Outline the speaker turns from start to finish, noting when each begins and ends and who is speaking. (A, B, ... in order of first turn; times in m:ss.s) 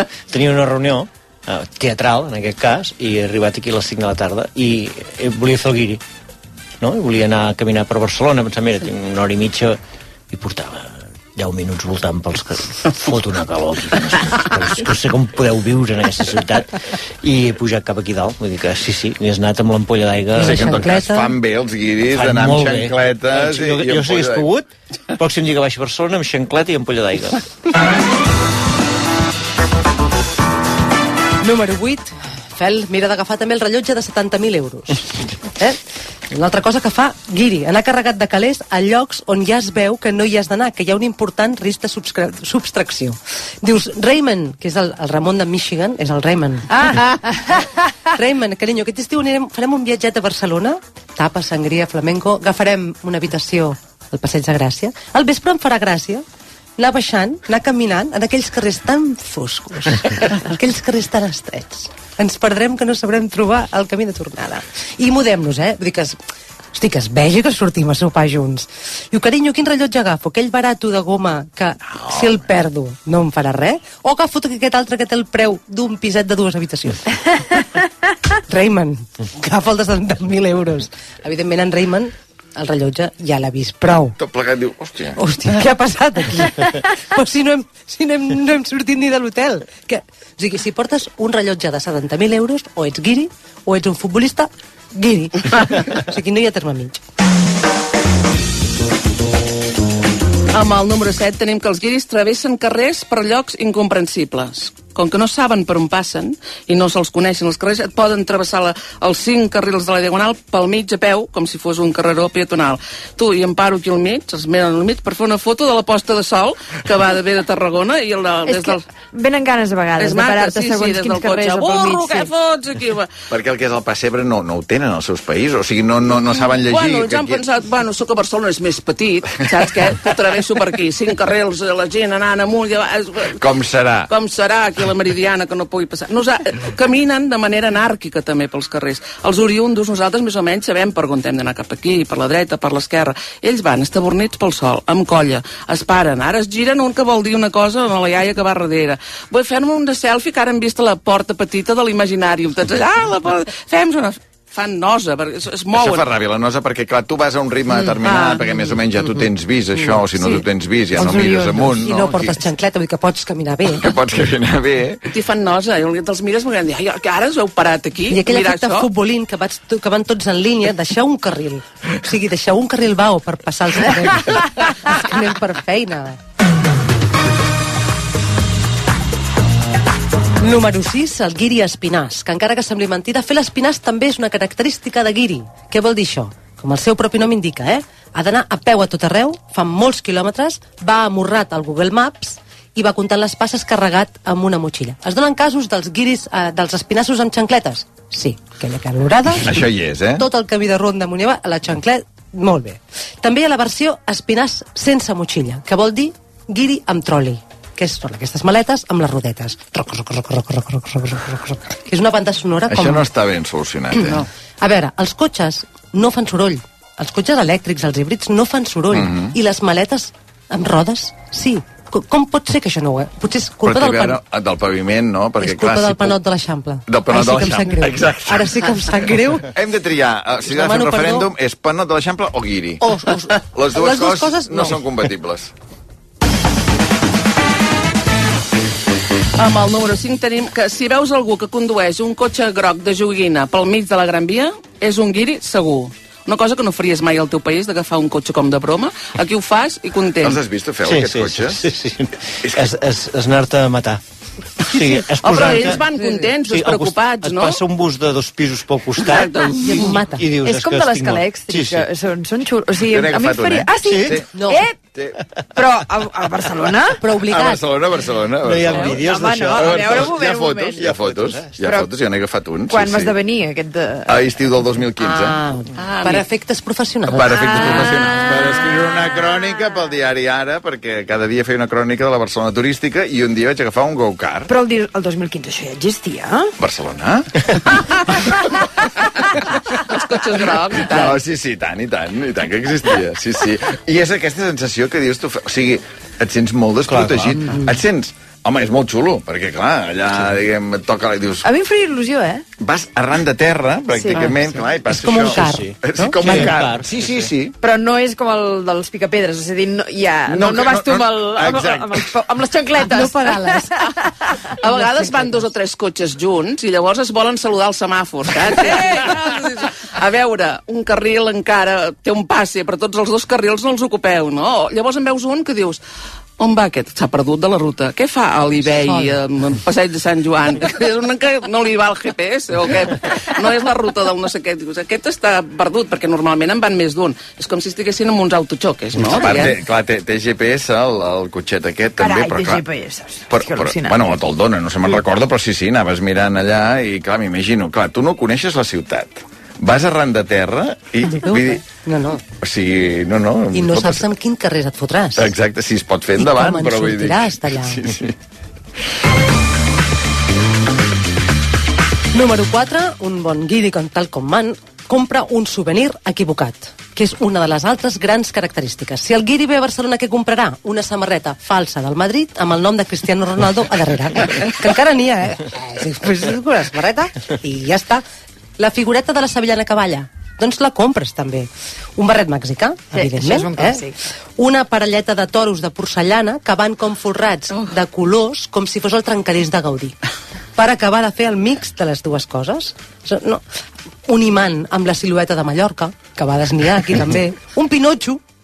0:00.3-0:06.0 A
0:06.8-0:09.8 A
0:10.3-0:21.0 A
0:20.4-0:21.4 B
0:20.4-0:24.5 C
0:22.1-0:27.4 A
0:31.4-0:35.0 B
0:36.3-0:47.6 B
0:48.2-0:56.2 B
0:56.8-1:06.2 B
1:06.7-1:17.3 B
1:18.5-1:24.2 B
1:24.2-1:25.2 C
1:25.2-1:37.0 B
1:40.5-1:58.8 D
1:58.5-2:02.3 E
2:00.0-2:03.1 D
2:03.3-2:07.4 C
2:06.4-2:13.4 D
2:13.4-2:14.1 C
2:14.1-2:36.1 D
2:35.8-2:42.4 C
2:38.0-2:38.6 B
2:41.0-2:43.9 B
2:43.8-2:45.0 C
2:45.1-2:48.9 D
2:48.1-2:56.2 B
3:00.4-3:19.6 B
3:19.4-3:20.2 C
3:20.2-3:33.1 B
3:32.7-3:34.2 C
3:33.9-3:44.2 B
3:38.9-3:39.4 C
3:43.7-3:46.2 C
3:45.4-3:49.5 B
3:46.9-3:48.8 C
3:49.5-3:55.5 C
3:50.5-3:51.3 B
3:52.8-3:55.0 B
3:59.4-4:10.4 D
4:10.2-4:11.7 C
4:10.9-4:14.0 A
4:12.4-4:12.7 C
4:14.6-4:15.9 A
4:15.2-4:17.6 D
4:15.5-4:16.3 B
4:16.5-4:21.9 A
4:19.0-4:19.9 D
4:19.6-4:20.2 B
4:20.4-4:24.8 E
4:22.9-4:24.3 C
4:23.9-4:24.2 A
4:24.3-4:24.6 B
4:25.6-4:27.0 E
4:27.0-4:27.6 B
4:27.2-4:33.2 C
4:28.4-4:30.2 A
4:29.0-4:31.0 E
4:30.8-4:31.6 A
4:31.6-4:31.9 E
4:32.7-4:34.2 E
4:34.1-4:35.4 C
4:35.0-4:38.0 B
4:35.8-4:36.3 D
4:37.1-4:44.5 C
4:37.6-4:38.4 E
4:44.5-4:46.5 E
4:46.6-4:47.4 C
4:49.9-4:51.2 D
4:50.8-5:01.4 C
4:56.9-4:57.5 A
5:01.4-5:02.4 E
5:02.6-5:07.5 C
5:03.9-5:04.3 E
5:04.9-5:06.4 B
5:05.3-5:07.3 A
5:07.6-5:15.0 E
5:10.3-5:12.1 C
5:12.8-5:13.8 B
5:14.6-5:25.8 D
5:14.7-5:15.4 B
5:26.4-5:39.5 D
5:28.6-5:29.2 E
5:39.1-5:42.7 C
5:42.0-5:44.1 E
5:43.3-5:51.6 C
5:51.0-5:52.2 B
5:52.4-5:54.1 C
5:53.5-5:55.3 B
5:55.2-5:58.2 C
5:56.2-5:57.8 B
6:02.1-6:18.0 B
6:18.6-6:30.0 B
6:22.9-6:24.0 E
6:30.6-6:33.4 B
6:34.1-6:38.2 B